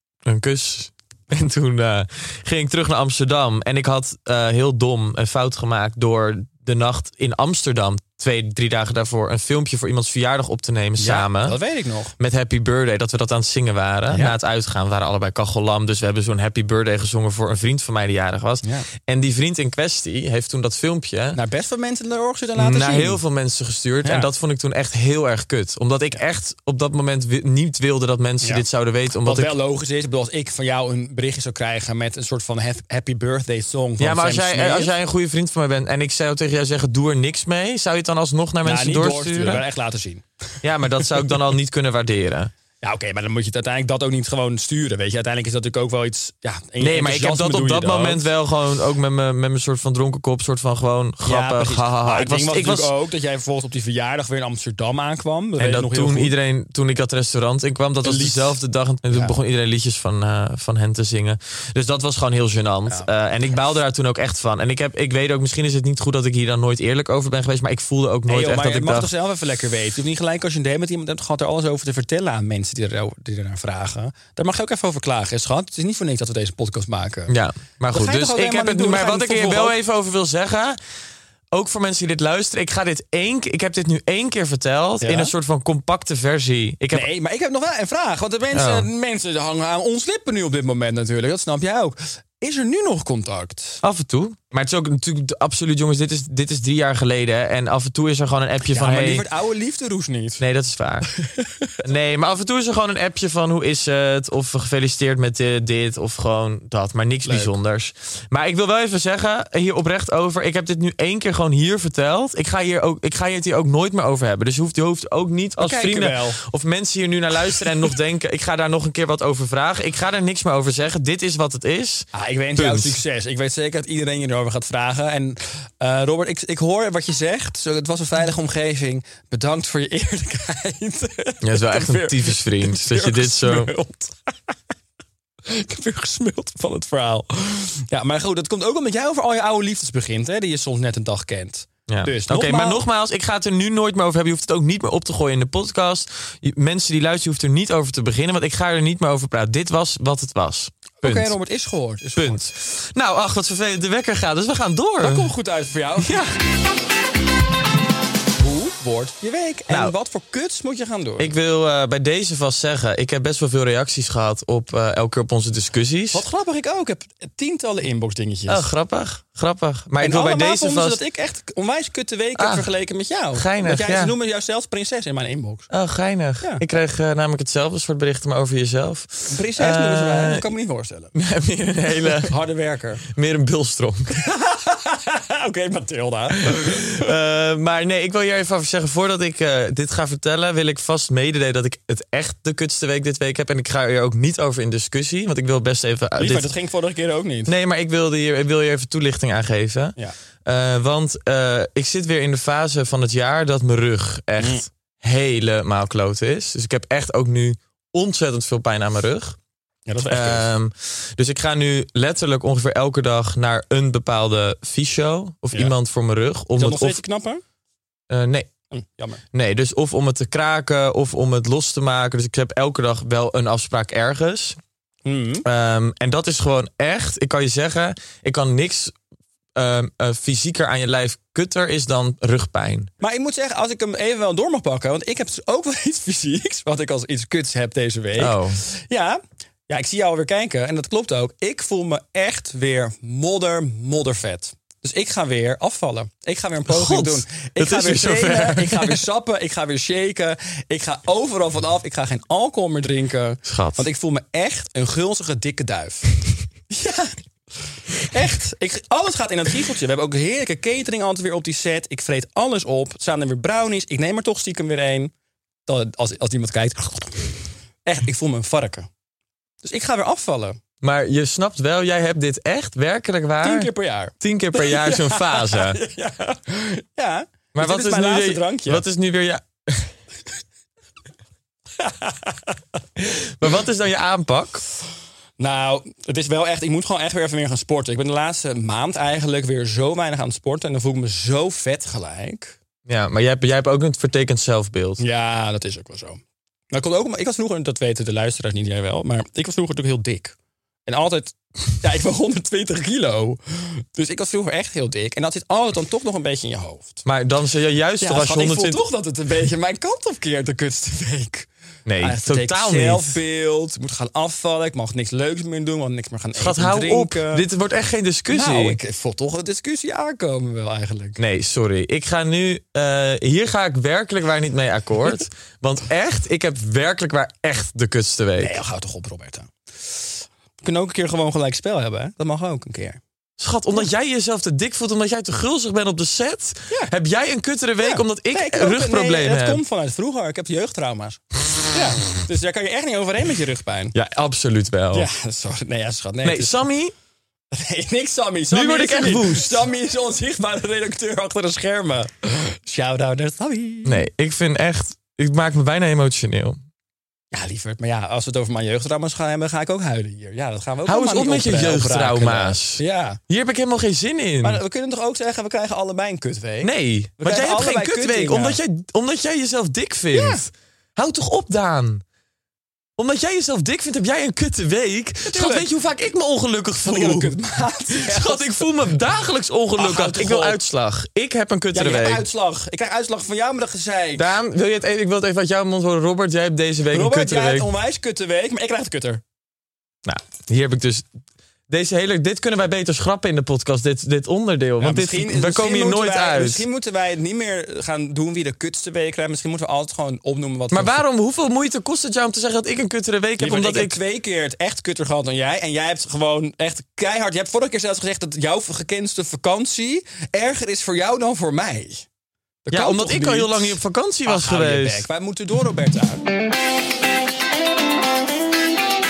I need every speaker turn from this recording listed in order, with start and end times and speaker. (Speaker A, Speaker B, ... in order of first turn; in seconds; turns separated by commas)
Speaker A: 0.2-11.6, Speaker B: 11.0-12.1, Speaker A: 12.2-21.4, Speaker B: 14.1-14.4, Speaker B: 21.3-23.2, Speaker A: 22.6-29.5, Speaker B: 29.2-34.9, Speaker A: 34.0-39.7, Speaker B: 38.6-40.2, Speaker A: 40.6-42.5, Speaker B: 42.8-48.2, Speaker A: 46.8-52.9, Speaker B: 51.2-56.3, Speaker A: 55.6-69.1, Speaker B: 58.0-58.6, Speaker B: 59.1-59.4, Speaker B: 68.3-77.3, Speaker A: 77.3-80.8, Speaker B: 77.9-79.7, Speaker A: 81.5-87.1, Speaker B: 85.0-85.3, Speaker B: 86.9-93.8, Speaker A: 88.5-88.9, Speaker A: 93.8-99.2, Speaker B: 98.7-100.4, Speaker A: 100.4-101.1, Speaker B: 101.1-101.7, Speaker A: 101.8-123.0, Speaker B: 107.2-107.5, Speaker B: 115.6-116.4, Speaker B: 122.1-134.3, Speaker A: 131.4-133.7, Speaker B: 135.4-142.8, Speaker A: 141.9-151.3, Speaker B: 151.0-152.4, Speaker A: 152.2-155.3, Speaker B: 155.0-156.2, Speaker A: 156.0-156.3, Speaker B: 158.4-161.3, Speaker A: 159.7-159.9, Speaker A: 161.2-166.2, Speaker B: 166.1-168.7, Speaker A: 168.5-171.0, Speaker B: 170.0-175.7, Speaker A: 172.3-172.7, Speaker A: 173.3-174.1, Speaker A: 175.7-180.5, Speaker B: 179.3-181.1, Speaker A: 181.1-182.3, Speaker B: 182.1-183.0, Speaker A: 183.1-184.2, Speaker B: 184.2-187.1, Speaker A: 186.4-196.5, Speaker B: 196.2-197.5, Speaker A: 197.4-209.4, Speaker B: 204.4-204.6, Speaker B: 209.8-210.4, Speaker A: 210.1-217.0, Speaker B: 216.6-217.4, Speaker A: 218.1-218.5, Speaker B: 218.7-219.2, Speaker A: 219.3-224.6, Speaker B: 225.0-225.4, Speaker A: 225.4-228.9, Speaker A: 229.5-232.9, Speaker B: 233.0-256.1, Speaker A: 238.2-238.6, Speaker A: 246.7-249.0, Speaker A: 253.4-253.9, Speaker B: 256.7-257.2, Speaker B: 258.0-265.1, Speaker B: 265.6-267.3, Speaker B: 267.8-268.9, Speaker B: 269.6-270.6, Speaker A: 270.8-275.8, Speaker B: 273.4-278.8, Speaker A: 277.5-279.9, Speaker B: 281.8-282.5, Speaker A: 283.0-284.6, Speaker B: 285.4-292.6, Speaker A: 292.9-295.0, Speaker B: 295.0-300.3, Speaker B: 300.9-307.0, Speaker A: 307.1-308.8, Speaker B: 308.0-311.5, Speaker A: 311.9-313.2, Speaker B: 312.0-317.4, Speaker A: 316.3-318.8, Speaker B: 318.3-321.2, Speaker A: 321.2-328.6, Speaker B: 328.4-333.0, Speaker A: 333.4-339.6, Speaker B: 337.8-343.9, Speaker A: 343.9-345.1, Speaker B: 344.9-346.6, Speaker A: 346.2-346.9, Speaker B: 347.5-354.0, Speaker A: 348.5-349.6, Speaker A: 353.8-356.6, Speaker B: 357.3-363.2, Speaker A: 360.8-364.6, Speaker B: 364.4-368.6, Speaker A: 366.6-372.0, Speaker B: 370.1-370.4, Speaker A: 373.0-377.4, Speaker B: 375.3-375.7, Speaker B: 376.8-378.6, Speaker A: 377.9-382.2, Speaker B: 379.8-380.6, Speaker B: 381.7-384.3, Speaker A: 384.1-387.7, Speaker B: 386.9-389.2, Speaker A: 390.0-391.1, Speaker A: 391.7-396.6, Speaker B: 394.8-400.9, Speaker A: 400.7-404.0, Speaker B: 403.4-412.1, Speaker B: 412.6-416.2, Speaker A: 412.7-415.1